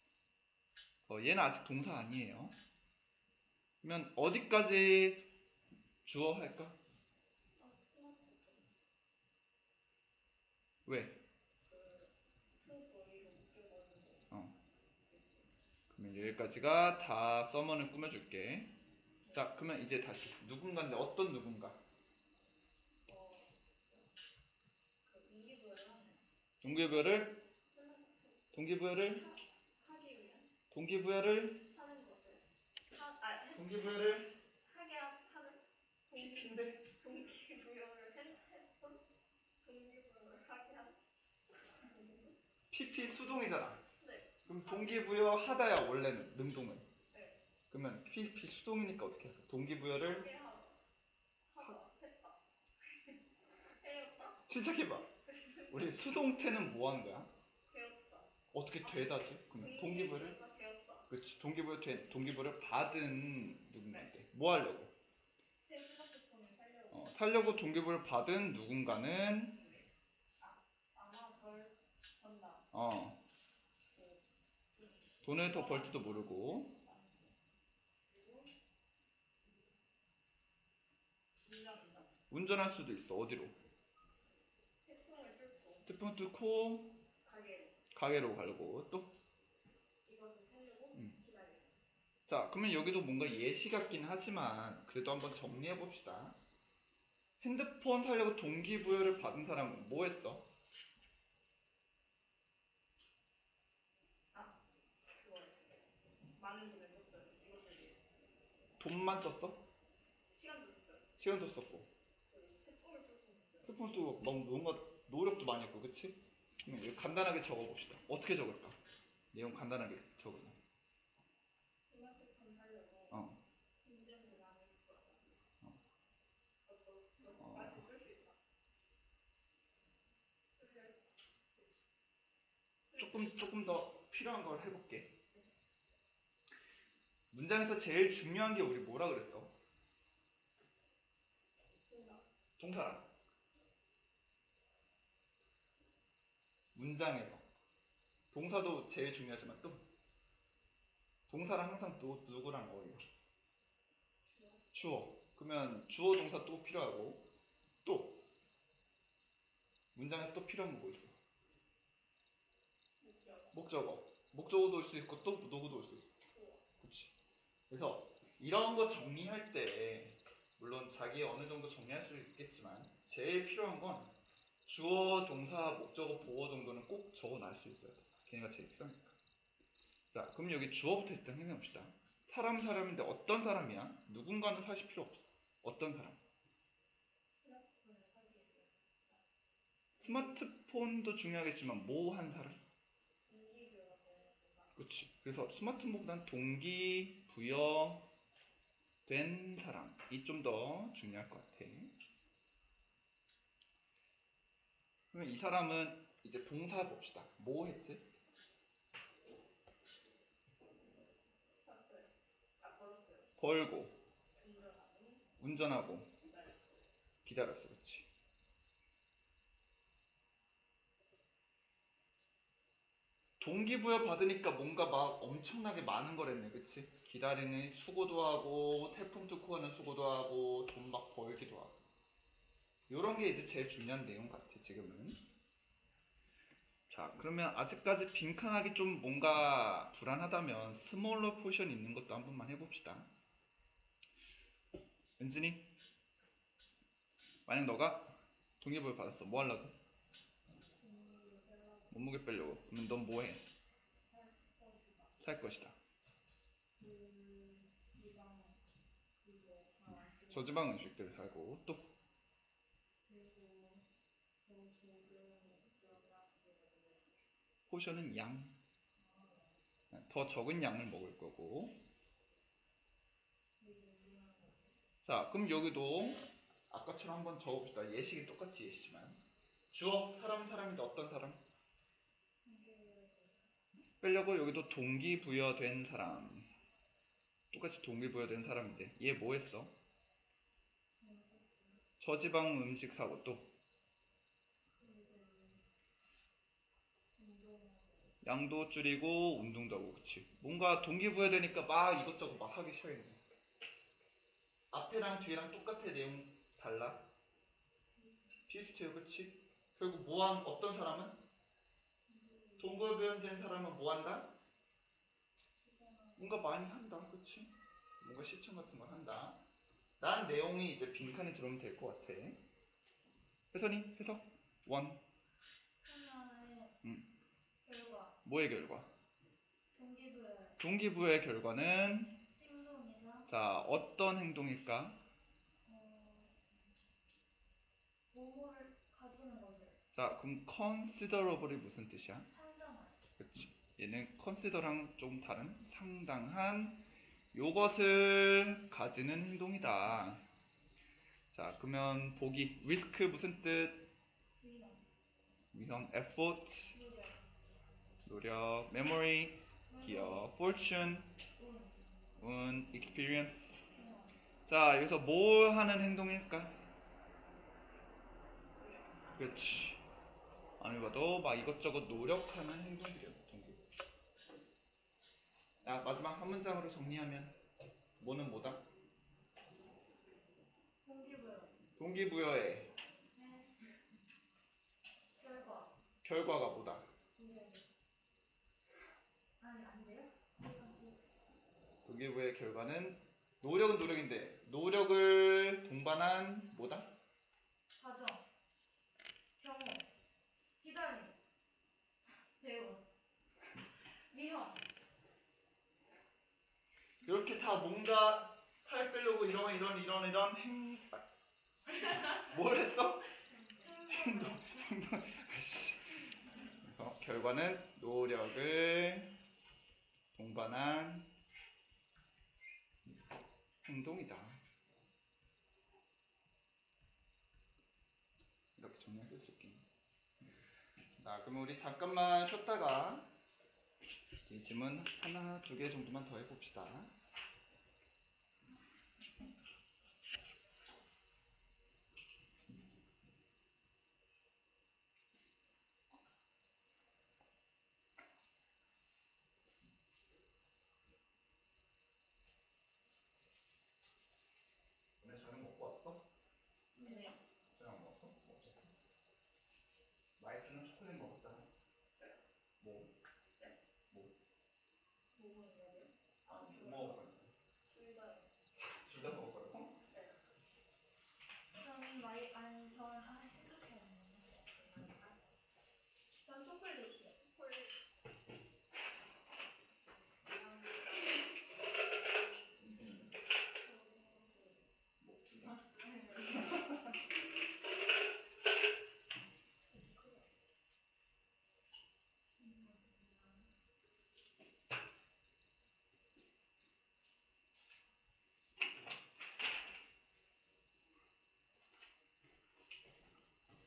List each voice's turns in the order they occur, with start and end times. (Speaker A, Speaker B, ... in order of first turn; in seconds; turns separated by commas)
Speaker A: 1.1-2.5, Speaker A: 3.8-5.2, Speaker A: 6.0-6.8, Speaker B: 7.6-8.7, Speaker A: 10.8-11.2, Speaker B: 11.7-14.3, Speaker A: 14.3-14.6, Speaker B: 15.0-15.5, Speaker A: 15.9-18.7, Speaker A: 19.3-21.8, Speaker B: 23.1-24.1, Speaker B: 25.0-26.2, Speaker A: 26.6-27.4, Speaker B: 27.7-30.5, Speaker A: 28.5-29.3, Speaker A: 30.7-31.6, Speaker B: 31.6-39.0, Speaker A: 33.5-34.3, Speaker A: 36.1-36.8, Speaker B: 39.6-41.0, Speaker B: 41.8-42.4, Speaker A: 42.7-43.8, Speaker B: 44.0-45.0, Speaker A: 44.5-46.9, Speaker B: 47.1-47.4, Speaker A: 47.7-50.3, Speaker B: 50.0-50.8, Speaker B: 51.5-52.4, Speaker B: 53.8-54.5, Speaker A: 54.5-55.1, Speaker B: 55.2-56.0, Speaker A: 55.7-57.3, Speaker B: 57.7-58.3, Speaker A: 58.5-60.4, Speaker B: 58.8-61.1, Speaker A: 61.1-64.9, Speaker B: 65.7-67.1, Speaker A: 66.9-69.6, Speaker B: 69.5-69.9, Speaker B: 70.4-72.6, Speaker A: 72.7-73.2, Speaker B: 73.9-74.2, Speaker B: 74.7-77.3, Speaker A: 75.2-76.7, Speaker B: 78.1-78.5, Speaker B: 81.4-82.1, Speaker A: 82.3-83.5, Speaker B: 84.8-85.9, Speaker A: 85.8-87.0, Speaker B: 87.2-87.8, Speaker A: 87.9-89.1, Speaker B: 90.0-91.7, Speaker A: 92.3-96.4, Speaker A: 97.4-100.5, Speaker B: 105.1-105.8, Speaker B: 106.3-108.0, Speaker A: 108.8-109.6, Speaker B: 110.3-111.1, Speaker A: 111.2-111.9, Speaker B: 112.3-113.8, Speaker A: 113.6-118.8, Speaker A: 119.3-120.6, Speaker B: 121.9-123.2, Speaker A: 123.1-123.4, Speaker B: 123.8-125.4, Speaker B: 126.7-128.4, Speaker A: 127.4-127.8, Speaker B: 130.6-131.0, Speaker B: 132.9-133.5, Speaker A: 132.9-135.1, Speaker A: 137.3-139.5, Speaker B: 141.9-142.2, Speaker A: 142.6-143.1, Speaker A: 146.7-147.4, Speaker A: 148.3-149.8, Speaker A: 151.3-153.0, Speaker B: 154.3-154.6, Speaker A: 154.7-157.2, Speaker A: 157.8-158.2, Speaker A: 159.9-161.1, Speaker B: 163.0-163.6, Speaker A: 163.5-166.1, Speaker B: 166.3-166.6, Speaker A: 166.8-167.1, Speaker A: 167.7-174.1, Speaker A: 174.6-179.2, Speaker A: 180.1-186.2, Speaker B: 187.4-189.1, Speaker A: 190.0-192.6, Speaker B: 190.0-190.4, Speaker B: 193.3-194.7, Speaker A: 194.8-198.1, Speaker A: 199.1-201.9, Speaker A: 205.1-208.0, Speaker B: 211.6-213.3, Speaker A: 213.4-213.9, Speaker B: 214.4-215.2, Speaker A: 215.4-216.1, Speaker B: 216.2-216.9, Speaker A: 217.2-218.1, Speaker A: 223.4-231.8, Speaker A: 232.9-235.2, Speaker A: 236.9-243.1, Speaker A: 245.2-245.7, Speaker A: 247.4-249.7, Speaker C: 250.8-251.9, Speaker A: 251.9-253.4, Speaker C: 254.1-255.1, Speaker A: 255.2-255.8, Speaker C: 256.8-258.6, Speaker C: 259.2-260.6, Speaker A: 260.3-261.9, Speaker C: 263.1-263.8, Speaker C: 264.4-267.0, Speaker A: 267.7-268.6, Speaker C: 269.0-269.5, Speaker A: 269.9-271.8, Speaker C: 273.6-274.6, Speaker A: 275.0-281.4, Speaker C: 282.4-283.4, Speaker A: 284.0-286.5, Speaker A: 287.5-289.7, Speaker C: 291.0-291.8, Speaker A: 292.0-293.5, Speaker C: 294.8-295.6, Speaker C: 297.2-298.0, Speaker A: 298.2-303.2, Speaker A: 304.7-307.1, Speaker C: 308.0-308.4, Speaker A: 308.5-311.2, Speaker C: 312.1-312.9, Speaker A: 312.6-314.3, Speaker C: 315.6-316.3, Speaker A: 316.2-319.4, Speaker A: 320.0-322.4, Speaker A: 323.5-325.0, Speaker C: 325.8-326.7, Speaker A: 326.8-327.1, Speaker C: 327.6-328.2, Speaker A: 328.2-328.9, Speaker C: 329.7-330.6, Speaker A: 330.6-332.1, Speaker C: 332.2-333.3, Speaker A: 333.3-335.0, Speaker C: 335.6-336.4, Speaker C: 338.1-339.8, Speaker A: 339.9-342.3, Speaker C: 342.3-343.0, Speaker A: 343.2-350.2, Speaker A: 351.3-353.9, Speaker C: 354.4-354.8, Speaker A: 355.5-356.7, Speaker C: 356.7-357.2, Speaker A: 358.0-361.1, Speaker C: 359.7-360.3, Speaker C: 361.4-362.1, Speaker A: 362.2-363.6, Speaker C: 363.7-364.2, Speaker A: 364.5-366.6, Speaker B: 368.6-369.3, Speaker A: 369.1-369.8, Speaker A: 370.6-373.6, Speaker A: 375.6-377.3, Speaker A: 378.0-378.6, Speaker C: 380.8-381.5, Speaker A: 381.8-382.7, Speaker C: 383.1-383.6, Speaker C: 385.2-385.7, Speaker A: 386.0-386.9, Speaker C: 387.2-387.7, Speaker C: 389.4-391.0, Speaker A: 391.8-396.9, Speaker C: 397.7-398.2, Speaker C: 399.4-399.9, Speaker C: 400.6-401.2, Speaker C: 402.4-402.8, Speaker C: 404.1-404.6, Speaker A: 407.0-411.0, Speaker C: 411.9-412.2, Speaker A: 412.1-413.0, Speaker C: 413.3-414.7, Speaker A: 413.9-415.9, Speaker A: 416.5-419.1, Speaker A: 420.1-421.1, Speaker A: 423.6-424.4, Speaker A: 428.6-429.6, Speaker A: 431.0-433.1, Speaker A: 434.2-436.9, Speaker A: 455.0-456.0, Speaker C: 456.8-457.1, Speaker B: 456.8-457.1, Speaker A: 457.5-458.7, Speaker A: 460.2-461.5, Speaker A: 462.6-462.9, Speaker B: 465.1-467.0, Speaker A: 466.3-467.3, Speaker B: 467.7-468.3, Speaker A: 468.6-469.8, Speaker B: 469.9-470.2, Speaker C: 471.5-474.3, Speaker B: 474.5-475.2, Speaker C: 476.2-477.1, Speaker B: 476.9-477.8, Speaker B: 480.3-480.9, Speaker A: 482.6-483.1, Speaker B: 483.6-484.6, Speaker A: 485.0-485.6, Speaker C: 485.8-486.6, Speaker A: 486.4-486.9, Speaker B: 489.7-490.2, Speaker C: 492.4-493.5